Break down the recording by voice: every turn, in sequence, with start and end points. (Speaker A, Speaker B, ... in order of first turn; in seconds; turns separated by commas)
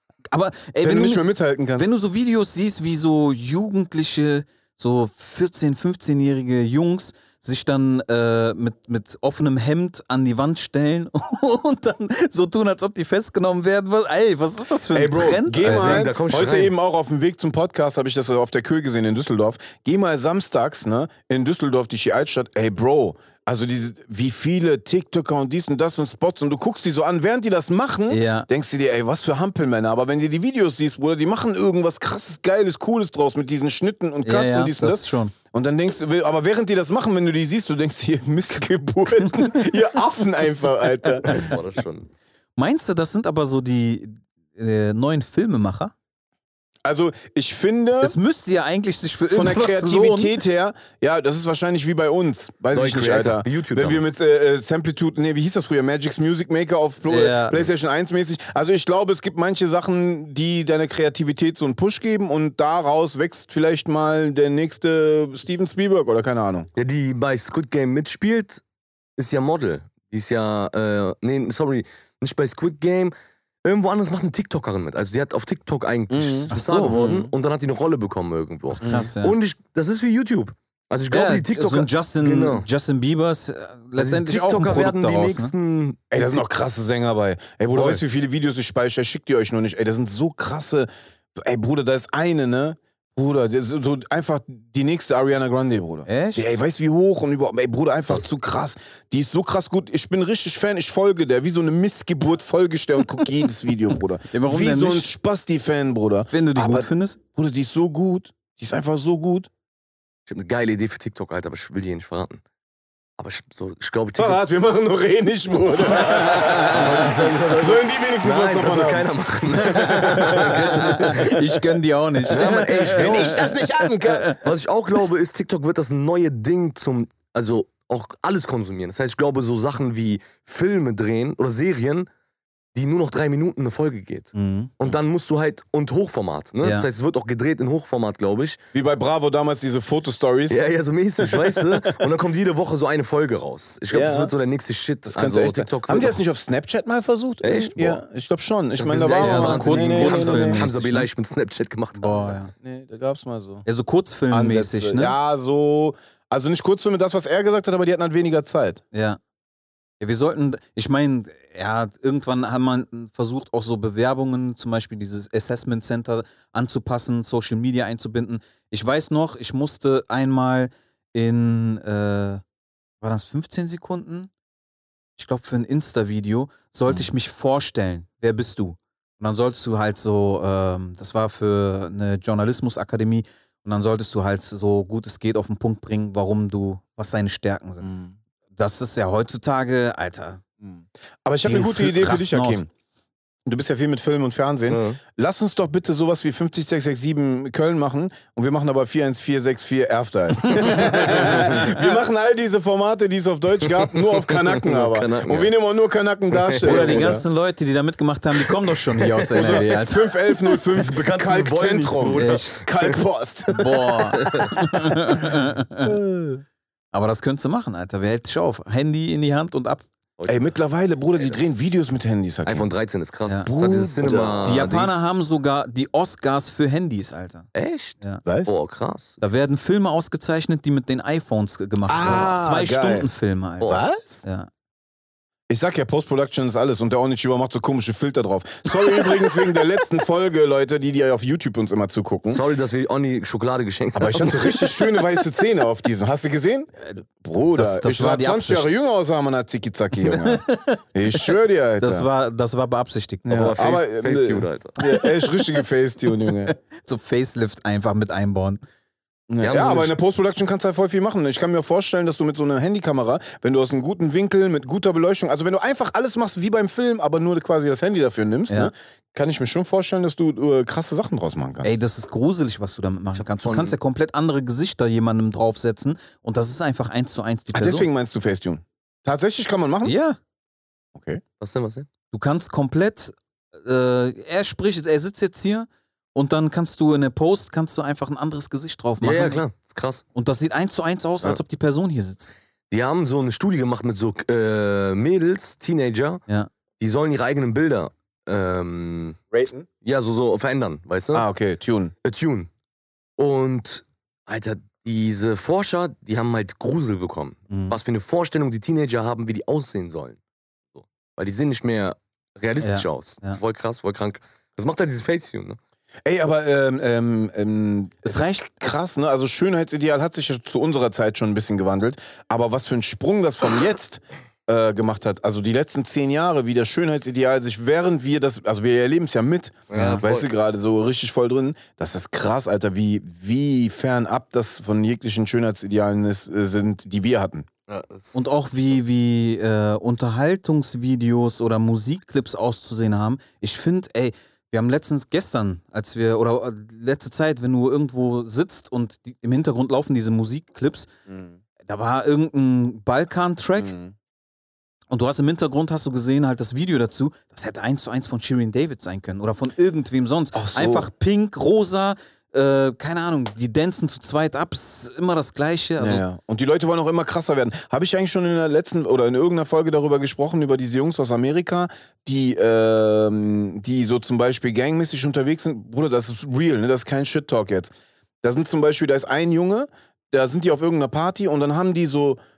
Speaker A: 0.3-16.1, Speaker B: 0.8-1.9, Speaker B: 14.9-41.5, Speaker C: 15.6-16.7, Speaker A: 28.1-28.5, Speaker A: 34.2-35.3, Speaker C: 41.2-42.1, Speaker A: 42.6-45.9, Speaker B: 46.9-48.2, Speaker A: 48.0-50.4, Speaker B: 49.3-66.7, Speaker C: 52.7-54.1, Speaker A: 57.1-57.7, Speaker C: 66.8-68.6, Speaker C: 69.2-73.1, Speaker C: 73.7-82.7, Speaker B: 76.1-77.2, Speaker A: 76.5-77.3, Speaker A: 78.8-79.4, Speaker B: 78.8-79.1, Speaker A: 81.1-85.5, Speaker C: 84.0-86.4, Speaker B: 86.1-109.5, Speaker A: 96.1-96.5, Speaker A: 104.3-105.1, Speaker A: 106.3-107.2, Speaker C: 110.3-112.4, Speaker C: 113.2-114.6, Speaker B: 114.2-121.4, Speaker C: 116.0-121.4, Speaker A: 120.1-124.4, Speaker B: 122.3-124.4, Speaker C: 122.3-123.5, Speaker C: 124.4-132.1, Speaker C: 132.7-138.6, Speaker A: 134.3-134.8, Speaker A: 136.6-136.9, Speaker B: 138.7-140.6, Speaker C: 140.5-146.2, Speaker B: 141.2-141.8, Speaker B: 143.9-144.3, Speaker B: 145.1-150.7, Speaker C: 147.4-148.0, Speaker C: 148.8-152.4, Speaker A: 149.1-151.1, Speaker A: 152.0-152.5, Speaker B: 152.6-153.7, Speaker A: 153.7-155.2, Speaker B: 154.3-158.8, Speaker A: 158.9-159.2, Speaker A: 160.0-172.4, Speaker A: 173.0-174.3, Speaker A: 175.2-187.9, Speaker B: 187.8-188.1, Speaker A: 188.6-190.4, Speaker B: 190.7-192.7, Speaker A: 191.4-192.7, Speaker B: 193.5-207.3, Speaker C: 194.7-195.0, Speaker A: 200.4-201.9, Speaker C: 201.2-201.6, Speaker C: 203.6-205.5, Speaker C: 206.3-207.1, Speaker A: 206.6-210.8, Speaker C: 208.8-209.8, Speaker B: 209.3-214.4, Speaker C: 210.7-213.0, Speaker A: 212.2-212.6, Speaker A: 213.5-216.0, Speaker C: 214.1-214.6, Speaker B: 215.3-216.4, Speaker A: 216.9-219.9, Speaker C: 220.2-220.6, Speaker B: 220.3-222.7, Speaker C: 221.2-221.5, Speaker C: 222.4-225.1, Speaker B: 223.4-224.7, Speaker A: 224.4-227.5, Speaker C: 227.5-229.2, Speaker B: 228.3-228.5, Speaker A: 229.2-234.5, Speaker B: 231.8-233.1, Speaker C: 232.1-232.4, Speaker C: 233.6-233.8, Speaker B: 233.6-234.2, Speaker B: 235.5-242.4, Speaker C: 242.3-244.9, Speaker B: 243.9-252.1, Speaker A: 247.5-248.7, Speaker A: 250.0-253.6, Speaker B: 253.3-256.6, Speaker C: 253.3-254.8, Speaker A: 254.8-258.6, Speaker B: 259.3-271.7, Speaker C: 259.4-259.9, Speaker A: 271.6-277.9, Speaker C: 273.4-273.8, Speaker B: 277.5-280.0, Speaker A: 279.8-280.2, Speaker B: 280.9-281.2, Speaker C: 281.4-281.9, Speaker A: 282.1-289.4, Speaker C: 289.0-290.0, Speaker A: 290.1-292.3, Speaker C: 292.7-296.2, Speaker C: 296.8-299.2, Speaker B: 299.3-299.7, Speaker C: 299.8-301.2, Speaker B: 301.1-301.9, Speaker C: 302.0-302.5, Speaker C: 303.2-310.2, Speaker A: 307.5-307.8, Speaker C: 310.7-315.6, Speaker A: 312.6-313.4, Speaker B: 316.1-337.5, Speaker A: 318.0-318.4, Speaker C: 329.7-330.3, Speaker A: 329.8-330.0, Speaker C: 337.7-338.4, Speaker A: 338.1-350.9, Speaker B: 351.1-351.4, Speaker A: 351.6-353.8, Speaker B: 353.6-353.9, Speaker A: 354.9-366.0, Speaker B: 360.3-360.9, Speaker B: 365.8-377.7, Speaker B: 378.2-382.2